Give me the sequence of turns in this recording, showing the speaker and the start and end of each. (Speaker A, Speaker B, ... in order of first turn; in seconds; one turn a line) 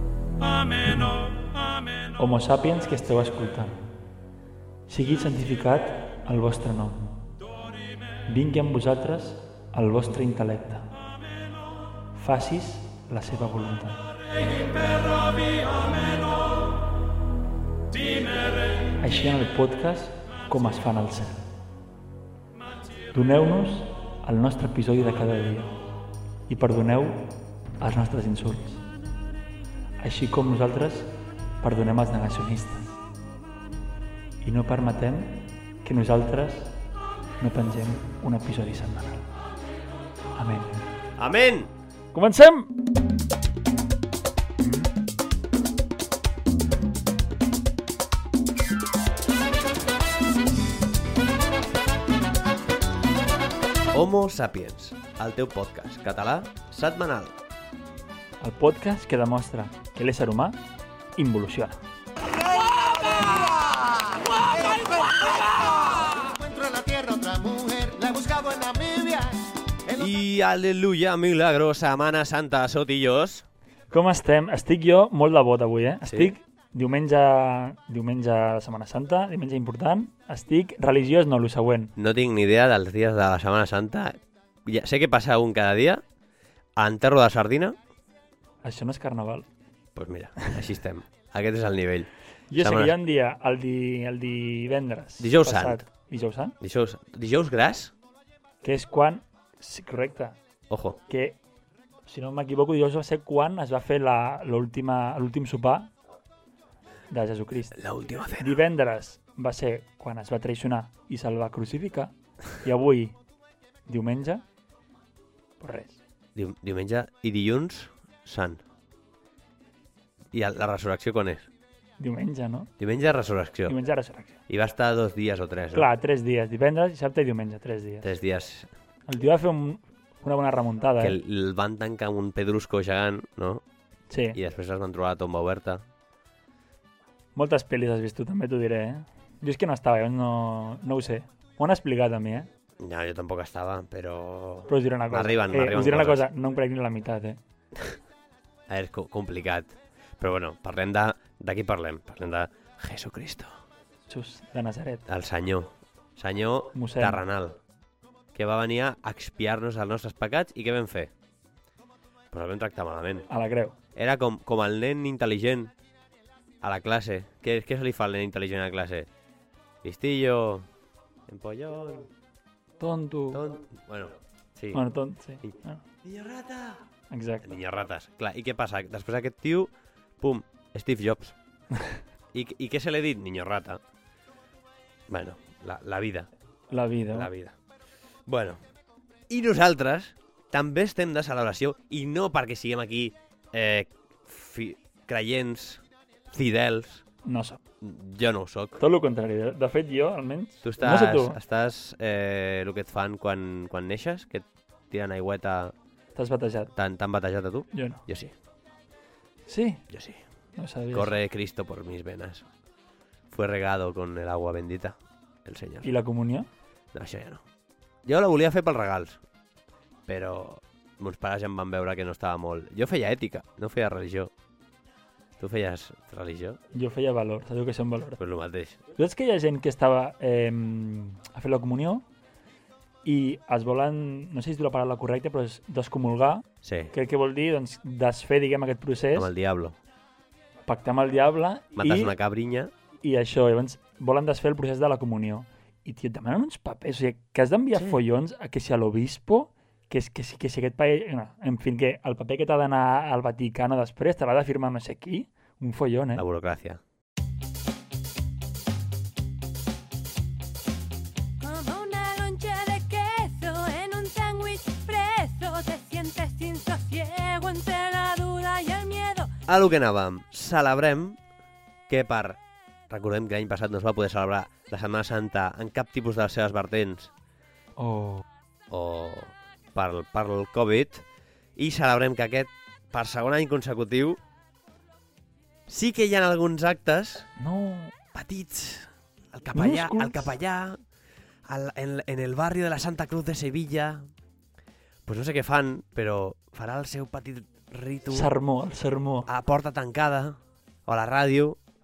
Speaker A: 0.4-2.1
Speaker B: 2.2-3.8
Speaker B: 4.9-7.3
Speaker B: 8.2-10.9
Speaker B: 12.1-14.1
Speaker A: 14.4-16.8
Speaker A: 17.9-18.8
Speaker B: 19.0-21.5
Speaker B: 23.1-25.7
Speaker B: 26.5-28.8
Speaker B: 30.0-33.0
Speaker B: 34.4-36.7
Speaker B: 37.4-39.2
Speaker B: 40.4-40.9
Speaker C: 41.1-41.7
Speaker B: 42.1-42.7
Speaker C: 53.9-57.4
Speaker B: 58.4-60.6
Speaker B: 61.1-61.8
Speaker D: 66.1-70.1
Speaker C: 70.0-73.5
Speaker B: 73.9-81.9
Speaker C: 76.0-76.3
Speaker C: 82.0-86.0
Speaker C: 86.8-87.8
Speaker B: 88.6-89.5
Speaker C: 89.9-93.0
Speaker B: 92.5-96.5
Speaker C: 95.2-95.8
Speaker C: 96.6-97.9
Speaker B: 98.6-100.4
Speaker C: 100.7-101.0
Speaker B: 101.1-101.4
Speaker B: 102.1-105.9
Speaker B: 107.1-107.8
Speaker C: 107.7-108.6
Speaker B: 108.3-113.2
Speaker B: 113.8-114.4
Speaker B: 115.6-116.0
Speaker C: 116.3-118.6
Speaker C: 120.3-121.5
Speaker B: 122.0-122.7
Speaker C: 122.8-123.8
Speaker B: 123.7-124.4
Speaker C: 124.5-125.9
Speaker B: 125.7-128.1
Speaker C: 128.0-128.7
Speaker B: 129.1-131.2
Speaker C: 131.0-133.6
Speaker B: 134.1-134.4
Speaker C: 134.3-135.8
Speaker B: 137.3-142.5
Speaker C: 142.8-146.3
Speaker B: 144.7-147.4
Speaker C: 148.7-153.6
Speaker B: 154.1-155.0
Speaker C: 155.1-157.6
Speaker B: 156.7-157.2
Speaker C: 158.3-161.1
Speaker C: 162.3-163.3
Speaker B: 163.3-163.8
Speaker C: 163.9-165.7
Speaker C: 166.6-169.1
Speaker C: 169.8-170.7
Speaker C: 171.3-172.1
Speaker B: 172.8-173.4
Speaker C: 173.3-174.8
Speaker B: 174.7-175.8
Speaker C: 175.4-176.8
Speaker B: 177.1-177.6
Speaker C: 177.4-181.3
Speaker C: 182.3-183.8
Speaker C: 185.1-186.3
Speaker B: 186.7-187.3
Speaker C: 187.1-187.6
Speaker C: 188.2-188.6
Speaker C: 189.3-197.0
Speaker B: 197.2-197.6
Speaker C: 197.8-198.8
Speaker B: 198.8-201.4
Speaker C: 200.6-205.7
Speaker B: 206.1-206.7
Speaker C: 206.7-208.3
Speaker B: 207.7-208.0
Speaker B: 209.5-209.8
Speaker C: 209.9-210.2
Speaker B: 210.6-211.1
Speaker C: 210.9-212.5
Speaker C: 213.3-215.9
Speaker B: 215.8-216.5
Speaker C: 216.9-217.4
Speaker C: 218.0-219.2
Speaker C: 220.1-224.3
Speaker C: 225.4-226.6
Speaker B: 226.7-228.2
Speaker C: 228.2-228.8
Speaker B: 229.0-232.0
Speaker B: 233.0-239.3
Speaker C: 236.6-236.9
Speaker C: 239.2-239.8
Speaker B: 240.7-242.1
Speaker C: 241.8-242.7
Speaker B: 243.0-256.2
Speaker C: 256.1-256.8
Speaker E: 261.4-269.3
Speaker C: 269.5-271.2
Speaker C: 271.9-277.1
Speaker B: 277.8-278.2
Speaker C: 278.7-281.0
Speaker C: 281.6-284.2
Speaker C: 285.7-287.3
Speaker B: 287.4-287.9
Speaker C: 288.1-290.8
Speaker B: 289.5-290.3
Speaker C: 291.5-294.1
Speaker C: 295.1-298.3
Speaker B: 298.1-299.3
Speaker C: 299.2-301.6